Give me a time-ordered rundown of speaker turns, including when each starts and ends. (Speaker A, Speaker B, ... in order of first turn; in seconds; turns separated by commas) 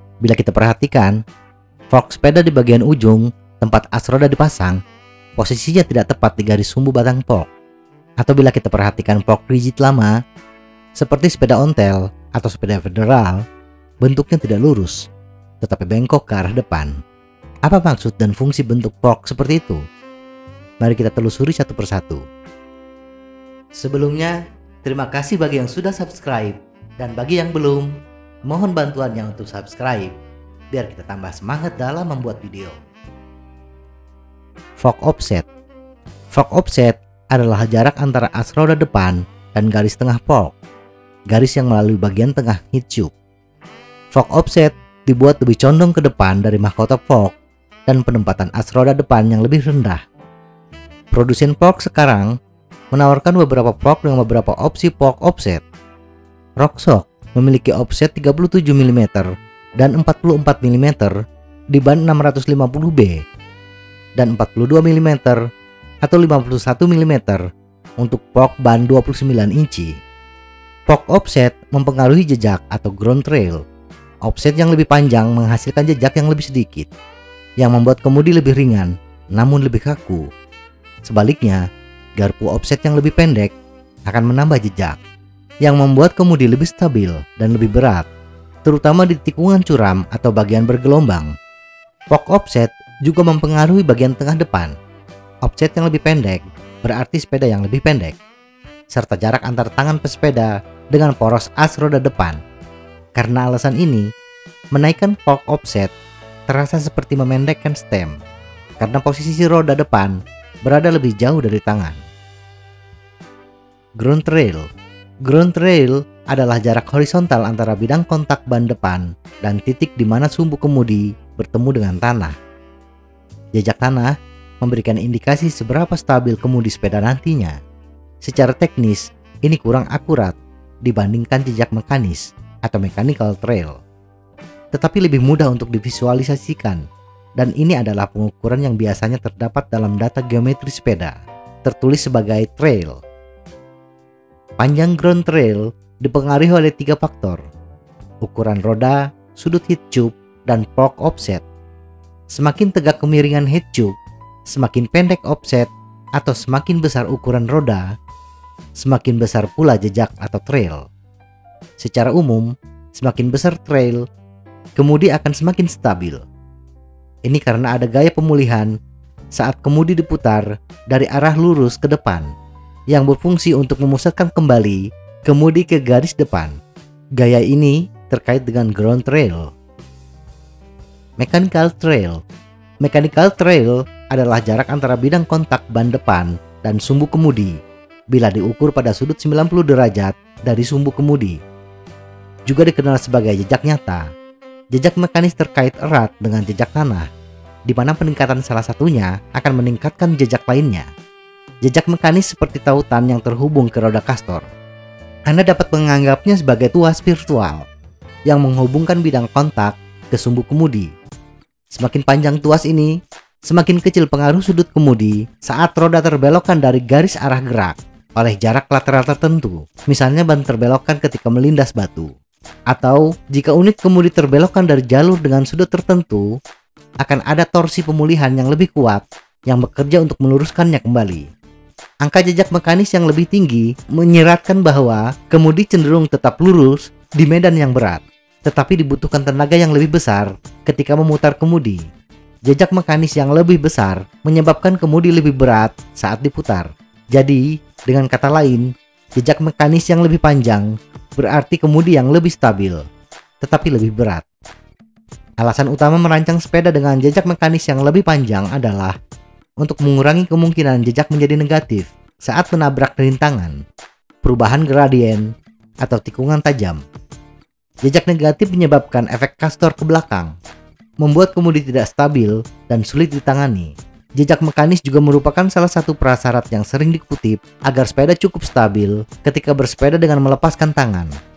Speaker A: 0.2-1.2, Speaker A: 1.9-4.8, Speaker A: 5.4-7.5, Speaker A: 8.2-10.1, Speaker A: 11.0-13.4, Speaker A: 14.0-15.1, Speaker A: 15.6-16.9, Speaker A: 17.7-19.8, Speaker A: 20.8-22.2, Speaker A: 23.8-27.9, Speaker A: 28.5-30.1, Speaker A: 30.7-32.8, Speaker A: 34.8-35.5, Speaker A: 36.3-40.5, Speaker A: 41.3-43.1, Speaker A: 44.1-47.4, Speaker A: 47.9-50.0, Speaker A: 51.1-52.3, Speaker A: 52.9-55.6, Speaker A: 56.6-59.3, Speaker A: 59.8-61.1, Speaker A: 61.7-63.2, Speaker A: 64.2-65.4, Speaker A: 66.0-67.4, Speaker A: 68.0-69.9, Speaker A: 70.9-73.6, Speaker A: 74.2-76.9, Speaker A: 77.6-80.2, Speaker A: 81.1-81.6, Speaker A: 82.2-83.5, Speaker A: 84.1-85.0, Speaker A: 85.6-88.1, Speaker A: 88.7-91.3, Speaker A: 92.1-94.7, Speaker A: 95.4-98.2, Speaker A: 98.9-102.4, Speaker A: 103.2-104.1, Speaker A: 104.7-105.9, Speaker A: 106.5-108.2, Speaker A: 108.8-112.0, Speaker A: 114.0-114.7, Speaker A: 115.3-122.3, Speaker A: 123.5-127.6, Speaker A: 128.2-133.8, Speaker A: 134.7-136.8, Speaker A: 137.4-143.0, Speaker A: 144.6-147.4, Speaker A: 148.2-151.4, Speaker A: 152.3-153.9, Speaker A: 154.5-157.9, Speaker A: 158.8-160.8, Speaker A: 161.8-164.0, Speaker A: 164.8-166.2, Speaker A: 167.3-168.7, Speaker A: 169.4-172.3, Speaker A: 172.9-176.5, Speaker A: 177.2-179.5, Speaker A: 181.2-182.2, Speaker A: 182.8-187.6, Speaker A: 188.1-191.4, Speaker A: 192.5-194.1, Speaker A: 194.7-197.1, Speaker A: 197.7-200.9, Speaker A: 201.6-204.5, Speaker A: 205.3-207.6, Speaker A: 208.3-210.9, Speaker A: 211.7-212.9, Speaker A: 213.5-222.1, Speaker A: 222.7-226.3, Speaker A: 227.0-231.3, Speaker A: 232.0-241.8, Speaker A: 242.5-252.8, Speaker A: 253.4-254.2, Speaker A: 255.4-258.9, Speaker A: 259.6-263.6, Speaker A: 264.2-265.3, Speaker A: 265.8-266.8, Speaker A: 267.8-270.3, Speaker A: 271.0-281.1